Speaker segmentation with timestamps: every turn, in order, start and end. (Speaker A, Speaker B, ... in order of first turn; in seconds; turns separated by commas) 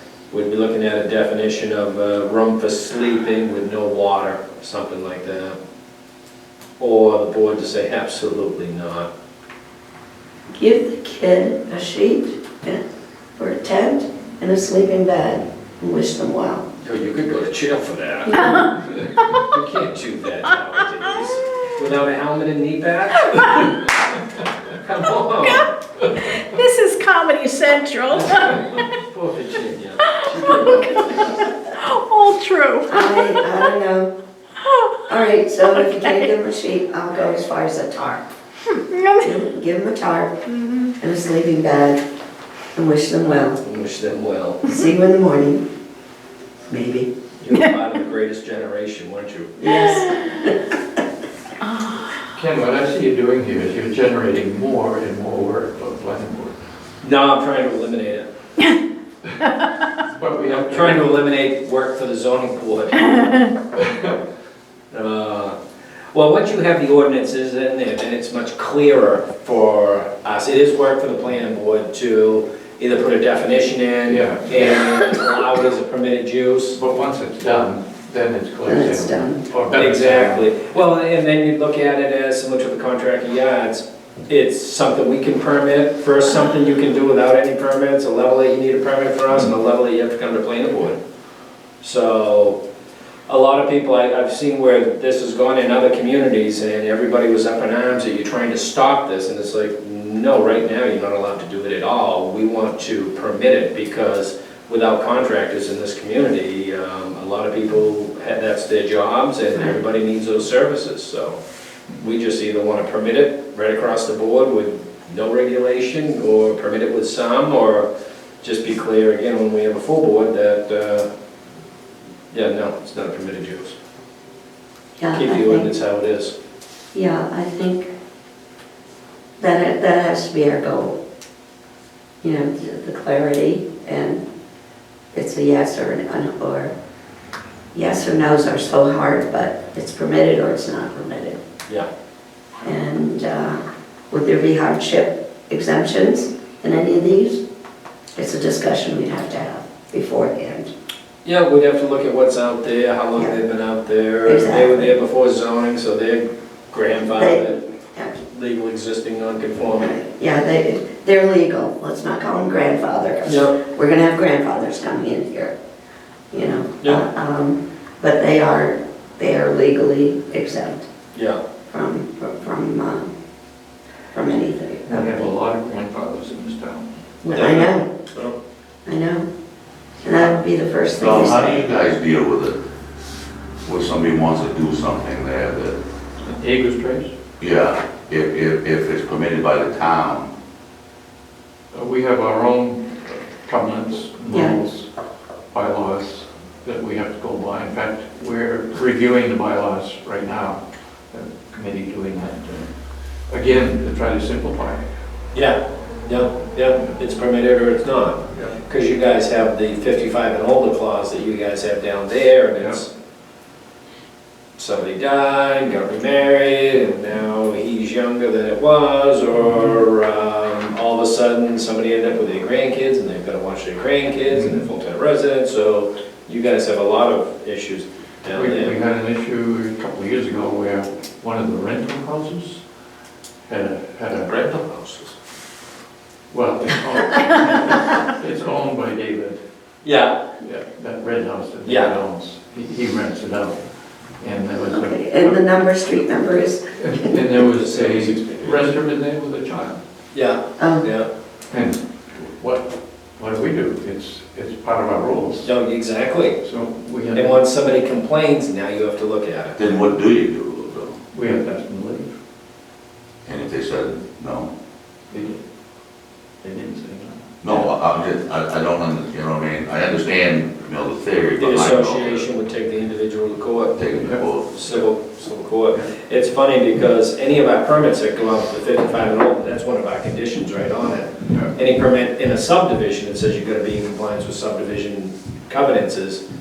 Speaker A: 0.3-5.6, Speaker A: 6.8-9.1, Speaker B: 10.6-12.8, Speaker B: 13.4-16.7, Speaker A: 16.8-18.5, Speaker B: 18.3-18.6, Speaker A: 19.3-23.9, Speaker A: 24.7-25.7, Speaker C: 26.3-28.5, Speaker A: 28.1-31.5, Speaker C: 31.9-32.8, Speaker B: 32.9-34.1, Speaker B: 35.1-38.3, Speaker C: 38.9-39.2, Speaker B: 39.1-40.4, Speaker B: 41.0-42.0, Speaker B: 42.8-43.6, Speaker A: 43.5-44.6, Speaker B: 44.6-45.6, Speaker B: 46.7-47.1, Speaker A: 47.4-49.6, Speaker B: 49.6-50.8, Speaker C: 51.7-52.1, Speaker D: 52.3-56.6, Speaker A: 57.0-58.3, Speaker D: 60.1-61.1, Speaker A: 60.5-63.5, Speaker D: 63.8-64.2, Speaker A: 64.9-65.6, Speaker A: 66.1-76.8, Speaker D: 74.1-74.8, Speaker D: 76.7-80.5, Speaker B: 78.7-79.4, Speaker A: 79.7-91.0, Speaker A: 91.8-92.6, Speaker A: 93.3-111.4, Speaker A: 112.0-117.9, Speaker A: 118.4-121.1, Speaker A: 122.3-123.8, Speaker B: 125.0-125.7, Speaker A: 125.1-126.3, Speaker B: 126.9-127.9, Speaker B: 129.4-131.0, Speaker B: 132.2-134.2, Speaker B: 135.1-136.8, Speaker B: 137.7-141.4, Speaker B: 142.6-147.4, Speaker B: 148.2-150.7, Speaker A: 151.2-157.6, Speaker B: 154.2-154.9, Speaker B: 157.1-158.2, Speaker A: 158.3-160.0, Speaker B: 159.8-165.6, Speaker A: 163.3-163.6, Speaker B: 166.3-170.9, Speaker A: 171.1-171.4, Speaker B: 171.7-173.1, Speaker B: 174.1-175.3, Speaker D: 174.9-176.9, Speaker B: 177.2-177.9, Speaker A: 177.3-178.3, Speaker B: 178.9-179.3, Speaker B: 180.0-181.7, Speaker E: 181.0-182.6, Speaker D: 181.0-181.9, Speaker E: 183.6-185.8, Speaker D: 186.2-187.1, Speaker E: 187.4-190.3, Speaker D: 191.7-194.9, Speaker B: 194.3-194.6, Speaker D: 195.5-200.6, Speaker D: 201.1-202.7, Speaker D: 203.3-204.9, Speaker A: 205.3-212.9, Speaker A: 214.6-228.8, Speaker D: 224.3-224.6, Speaker D: 228.3-232.6, Speaker D: 233.5-234.3, Speaker A: 234.1-235.2, Speaker D: 236.3-239.4, Speaker A: 239.8-240.2, Speaker D: 240.4-243.6, Speaker A: 241.7-241.9, Speaker D: 244.2-245.4, Speaker B: 244.6-247.2, Speaker D: 246.8-249.8, Speaker A: 247.4-248.7, Speaker A: 250.1-251.1, Speaker B: 250.6-250.9, Speaker D: 251.5-255.5, Speaker A: 255.4-256.4, Speaker D: 256.4-257.4, Speaker A: 257.1-259.6, Speaker E: 259.6-260.9, Speaker D: 261.1-262.1, Speaker E: 263.3-264.5, Speaker D: 265.1-265.4, Speaker D: 266.4-267.7, Speaker E: 267.4-272.3, Speaker A: 271.4-273.8, Speaker E: 273.8-274.5, Speaker D: 273.9-274.8, Speaker A: 274.5-286.2